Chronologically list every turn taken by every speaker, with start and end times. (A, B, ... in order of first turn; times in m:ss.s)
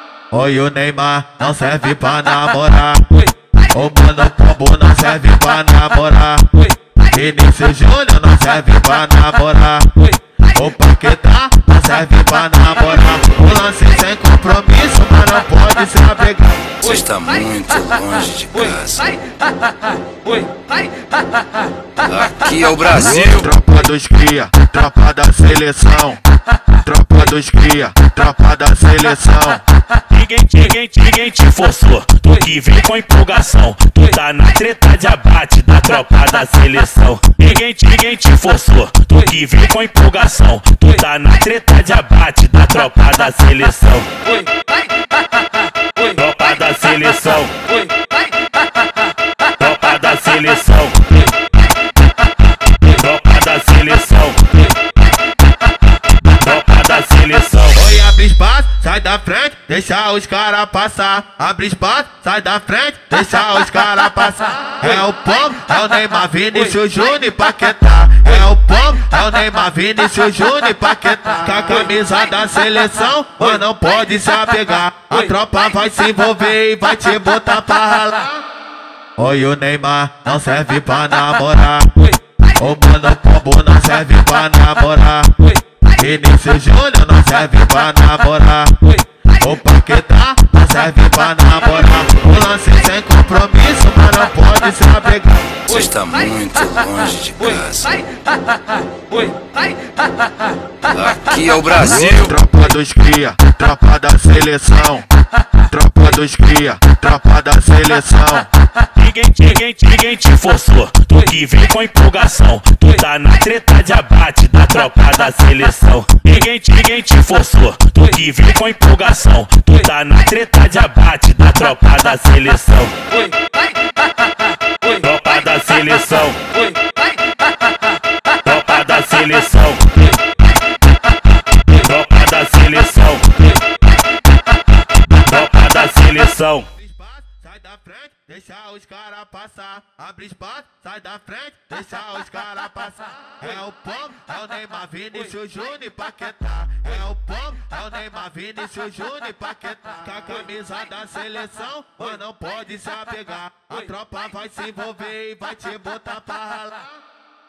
0:00.3-0:16.8 A
0:16.8-0:19.2 B
0:22.0-0:23.5 B
0:23.2-0:26.2 A
0:26.7-0:29.6 A
0:30.1-0:44.1 C
0:46.0-0:47.8 C
0:49.6-0:51.2 C
0:52.8-0:54.7 C
0:56.3-0:57.8 C
0:57.7-1:18.4 A
1:19.2-1:35.6 A
1:35.6-1:38.0 B
1:40.8-1:42.3 B
1:42.1-1:45.0 A
1:45.6-1:48.5 A
1:49.0-2:03.0 C
2:04.8-2:06.6 C
2:08.4-2:10.1 C
2:11.8-2:13.5 C
2:15.2-2:16.7 C
2:16.7-2:36.9 A